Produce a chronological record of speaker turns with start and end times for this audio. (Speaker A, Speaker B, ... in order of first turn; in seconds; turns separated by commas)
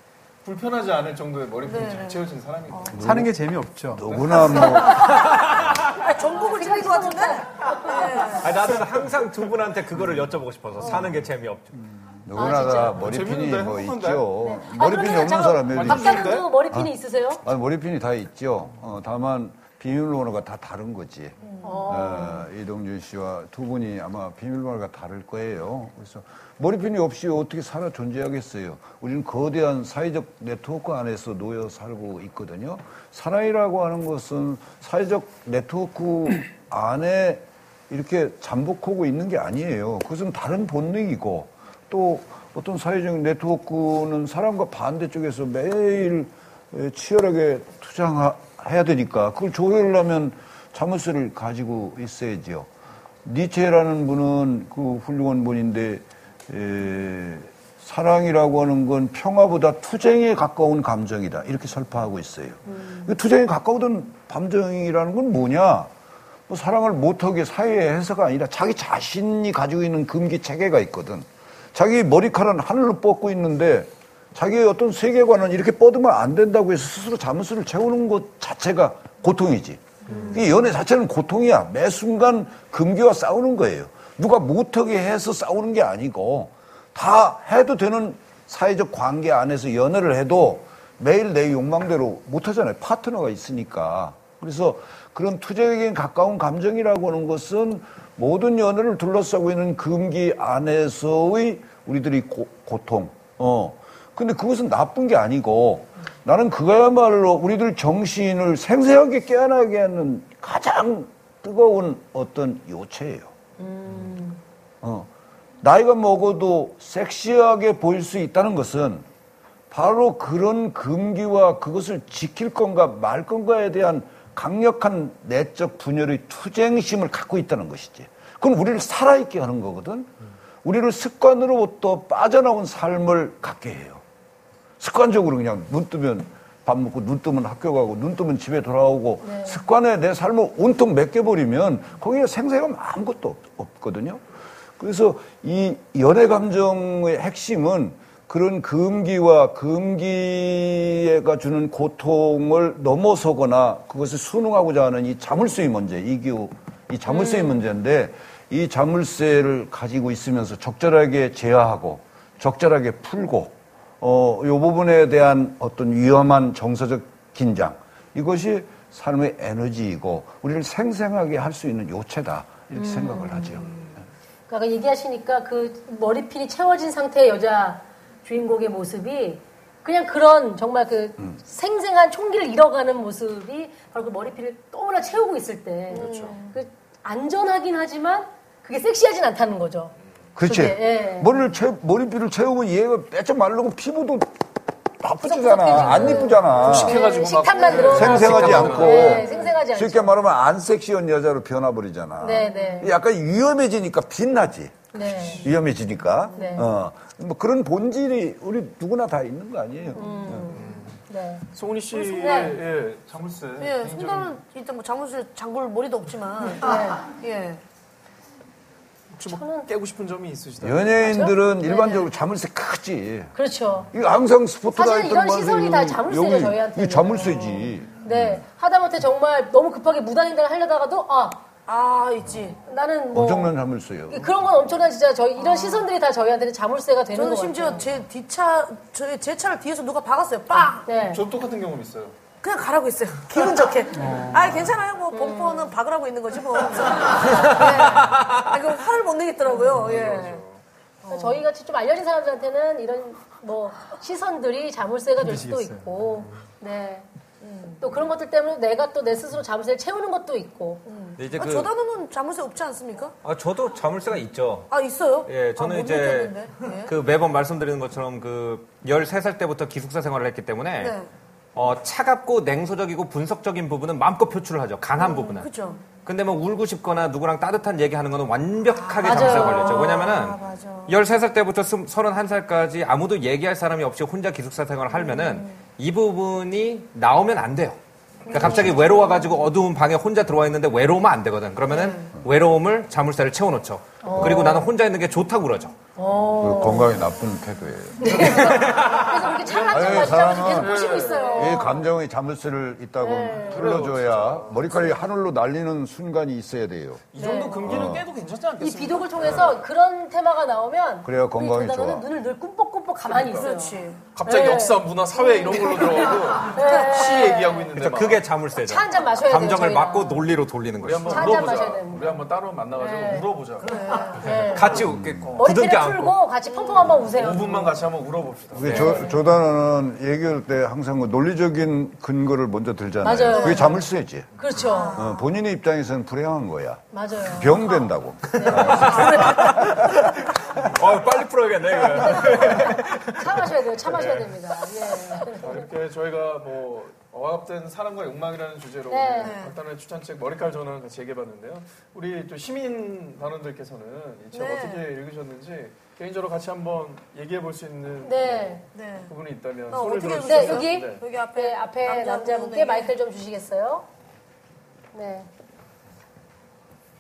Speaker A: 0.4-3.0, Speaker B: 1.6-3.0, Speaker C: 3.0-3.3, Speaker D: 3.0-4.2, Speaker C: 3.9-5.1, Speaker A: 4.2-4.8, Speaker E: 4.6-5.3, Speaker B: 4.8-8.5, Speaker E: 6.5-8.4, Speaker F: 8.4-11.7, Speaker C: 12.3-16.9, Speaker E: 12.3-13.1, Speaker A: 12.9-14.3, Speaker E: 14.4-17.4, Speaker A: 15.7-16.5, Speaker C: 17.4-52.7, Speaker B: 21.4-22.0, Speaker E: 21.6-22.5, Speaker C: 53.2-65.9, Speaker E: 62.7-63.1, Speaker C: 66.5-113.3, Speaker E: 80.1-80.4, Speaker E: 113.6-114.4, Speaker C: 114.8-115.1, Speaker C: 115.6-119.1, Speaker C: 119.7-130.1, Speaker C: 130.6-134.0, Speaker C: 134.8-144.2, Speaker E: 139.2-139.6, Speaker C: 144.8-174.0, Speaker E: 172.7-173.9, Speaker E: 174.5-189.9, Speaker B: 185.9-186.6, Speaker A: 185.9-186.3, Speaker C: 190.4-194.4, Speaker E: 190.5-191.3, Speaker C: 195.0-197.0, Speaker E: 195.2-200.2, Speaker A: 195.8-199.6, Speaker C: 197.7-204.9, Speaker E: 202.2-202.9, Speaker E: 204.9-205.5, Speaker A: 205.2-205.5, Speaker C: 205.4-210.7, Speaker B: 206.3-206.6, Speaker E: 206.3-206.7, Speaker E: 209.9-211.4, Speaker A: 210.6-211.0, Speaker A: 211.5-214.4, Speaker B: 211.9-212.6, Speaker E: 212.2-212.6, Speaker B: 213.6-217.6, Speaker E: 216.6-217.0, Speaker A: 219.1-221.1, Speaker E: 219.2-219.7, Speaker C: 220.6-223.3, Speaker E: 221.0-221.3, Speaker B: 221.6-222.1, Speaker E: 223.4-223.9, Speaker C: 223.9-228.4, Speaker E: 224.7-231.4, Speaker B: 231.7-232.6, Speaker E: 232.7-233.6, Speaker C: 233.1-234.3, Speaker E: 234.1-237.9, Speaker B: 235.4-235.8, Speaker B: 237.1-240.9, Speaker E: 240.9-241.2, Speaker A: 241.1-242.2, Speaker B: 242.4-250.4, Speaker D: 244.0-244.7, Speaker E: 245.1-245.7, Speaker A: 249.6-250.6, Speaker B: 251.0-251.4, Speaker E: 251.1-257.1, Speaker D: 255.2-255.9, Speaker B: 257.4-257.9, Speaker E: 257.8-260.8, Speaker B: 260.9-263.1, Speaker F: 261.2-261.7, Speaker F: 263.2-264.7, Speaker B: 264.7-266.9, Speaker F: 265.2-270.9, Speaker B: 270.8-271.1, Speaker F: 271.6-275.5, Speaker B: 275.0-275.8, Speaker F: 276.1-287.8, Speaker B: 278.8-281.0, Speaker E: 279.0-280.0, Speaker B: 284.9-285.6, Speaker B: 288.3-289.4, Speaker F: 288.3-295.8, Speaker E: 288.3-288.6, Speaker B: 291.7-292.1, Speaker E: 294.0-294.6, Speaker C: 294.2-294.5, Speaker E: 296.0-297.0, Speaker C: 296.4-298.8, Speaker E: 298.0-301.9, Speaker F: 298.2-299.4, Speaker A: 299.5-301.7, Speaker C: 299.7-307.0, Speaker E: 303.0-303.6, Speaker A: 303.4-305.0, Speaker A: 307.1-309.6, Speaker E: 307.2-307.8, Speaker C: 307.7-308.1, Speaker E: 308.6-317.6, Speaker C: 311.0-312.1, Speaker A: 313.1-313.5, Speaker B: 313.3-314.0, Speaker A: 314.1-318.3, Speaker B: 315.3-315.8, Speaker B: 316.6-317.5, Speaker F: 317.8-321.5, Speaker E: 318.6-320.2, Speaker A: 320.8-324.8, Speaker E: 321.1-322.2, Speaker E: 322.8-323.3, Speaker B: 323.6-324.2, Speaker E: 324.1-324.8, Speaker F: 324.5-326.2, Speaker C: 324.8-325.4, Speaker E: 325.4-327.7, Speaker B: 326.5-327.1, Speaker A: 327.1-329.0, Speaker C: 328.5-334.3, Speaker F: 328.6-329.0, Speaker E: 328.7-329.2, Speaker E: 333.0-333.8, Speaker B: 333.3-333.6, Speaker E: 334.4-335.0, Speaker B: 334.6-335.3, Speaker C: 334.9-340.0, Speaker E: 336.9-337.6, Speaker E: 338.4-338.8, Speaker F: 338.4-339.9, Speaker B: 338.7-339.6, Speaker F: 340.7-343.2, Speaker E: 341.9-345.6, Speaker A: 343.9-344.3, Speaker A: 345.4-361.0, Speaker E: 348.9-349.4, Speaker B: 349.2-349.6, Speaker B: 354.3-354.9, Speaker E: 358.0-358.6, Speaker B: 358.7-359.1, Speaker B: 359.7-362.9, Speaker E: 360.2-363.9, Speaker E: 364.9-365.3